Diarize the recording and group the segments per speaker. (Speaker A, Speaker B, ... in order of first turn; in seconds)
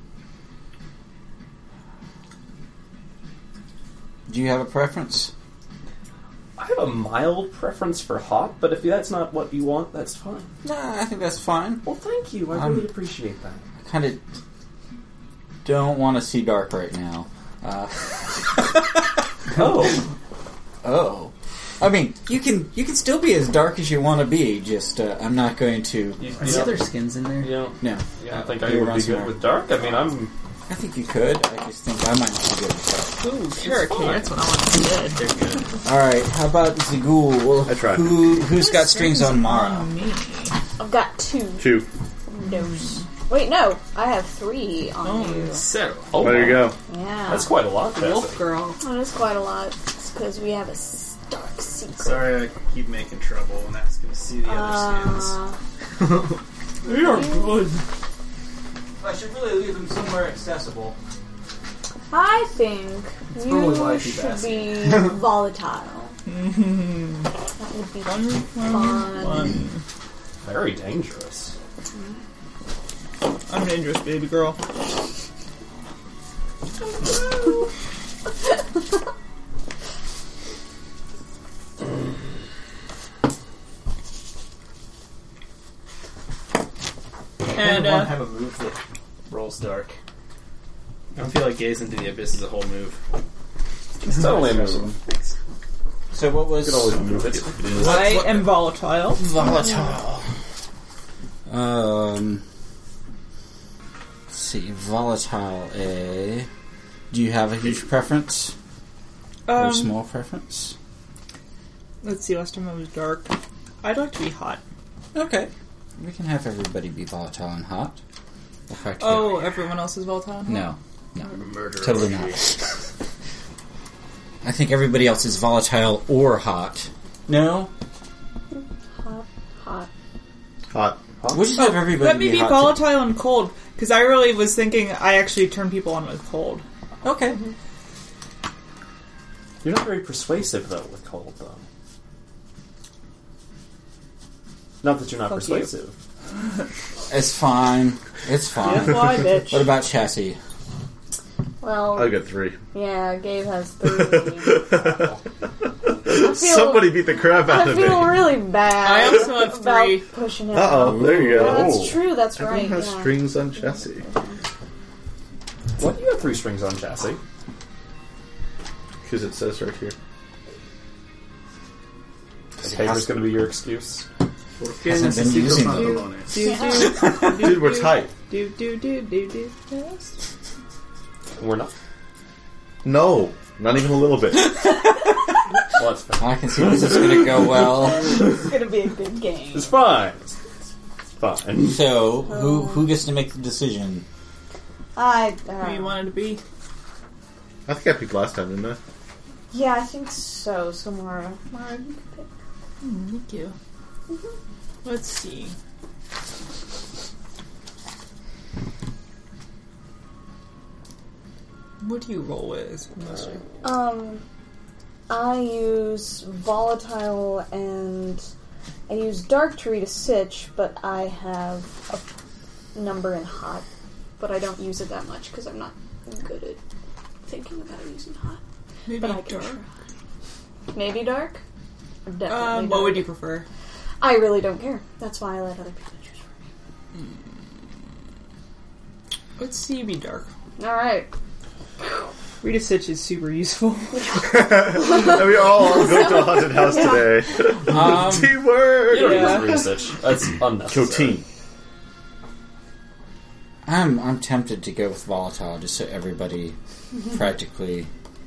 Speaker A: 4.3-5.3, 10.6-11.8, 12.5-12.9, 13.8-14.2, 15.6-19.9, 20.8-26.5, 27.8-29.4, 30.7-33.2, 35.8-39.9, 59.0-60.9, 96.1-97.2, 97.8-98.4, 99.2-100.2, 101.5-102.4, 104.3-106.5, 107.1-108.5, 109.5-110.7, 115.1-118.0, 118.7-119.5, 120.5-122.7, 124.4-127.7, 131.3-133.0, 137.0-137.4, 147.1-150.4, 172.6-173.2, 174.8-176.1, 186.2-188.2, 191.6-194.0, 247.7-248.4, 253.6-256.6, 257.1-257.9
Speaker B: 6.6-10.5, 11.8-13.6, 19.5-20.1, 26.4-26.8, 27.4-30.3, 46.1-46.7, 47.3-48.4, 70.4-71.5, 94.0-94.9, 96.5-98.2, 131.2-131.6, 139.6-141.6, 144.8-145.9, 160.9-162.0, 165.8-167.2, 172.6-174.1, 181.4-181.7, 185.8-187.8, 189.5-190.3, 191.2-191.9, 248.9-251.2
Speaker C: 26.2-27.6, 33.6-34.2, 35.0-35.8, 45.5-46.4, 52.0-55.4, 56.0-56.4, 63.3-65.3, 87.5-89.9, 91.2-93.0, 94.0-95.3, 121.2-122.7, 174.6-176.4
Speaker D: 33.2-35.2, 38.5-40.5, 42.4-43.1, 45.0-45.6, 47.9-48.8, 56.8-57.8, 66.3-67.3, 68.0-69.8, 73.5-74.6, 87.5-88.2, 97.8-99.5, 109.5-109.9, 112.0-114.6, 119.0-120.7, 131.5-136.6, 145.2-145.7, 148.6-149.7, 158.8-160.1, 175.5-180.1, 195.6-196.4, 202.8-203.5, 204.8-205.5, 211.8-213.4, 228.9-229.6, 232.3-233.4, 239.4-240.3, 242.4-244.1, 248.9-249.6
Speaker E: 37.7-38.2, 41.6-41.9, 46.2-46.8, 130.7-131.0, 151.9-152.6, 153.8-155.1, 155.9-158.3, 160.5-164.1, 169.0-169.9, 177.2-178.1, 182.8-184.6, 197.7-198.8, 244.2-249.5, 250.7-251.2
Speaker F: 40.8-41.7, 42.3-45.6, 46.9-47.5, 48.8-52.4, 54.4-55.5, 57.1-57.6, 62.1-66.1, 67.6-69.6, 128.5-129.9, 151.6-152.2, 152.7-154.7, 156.1-164.4, 176.4-177.0, 187.8-189.8, 192.3-192.8, 194.9-196.0, 199.5-202.3, 213.6-214.2, 215.1-218.2, 218.9-222.1, 222.7-223.6, 224.2-226.6, 227.2-229.6, 230.7-231.4, 232.1-233.1, 234.0-236.3, 240.6-241.1, 243.9-247.3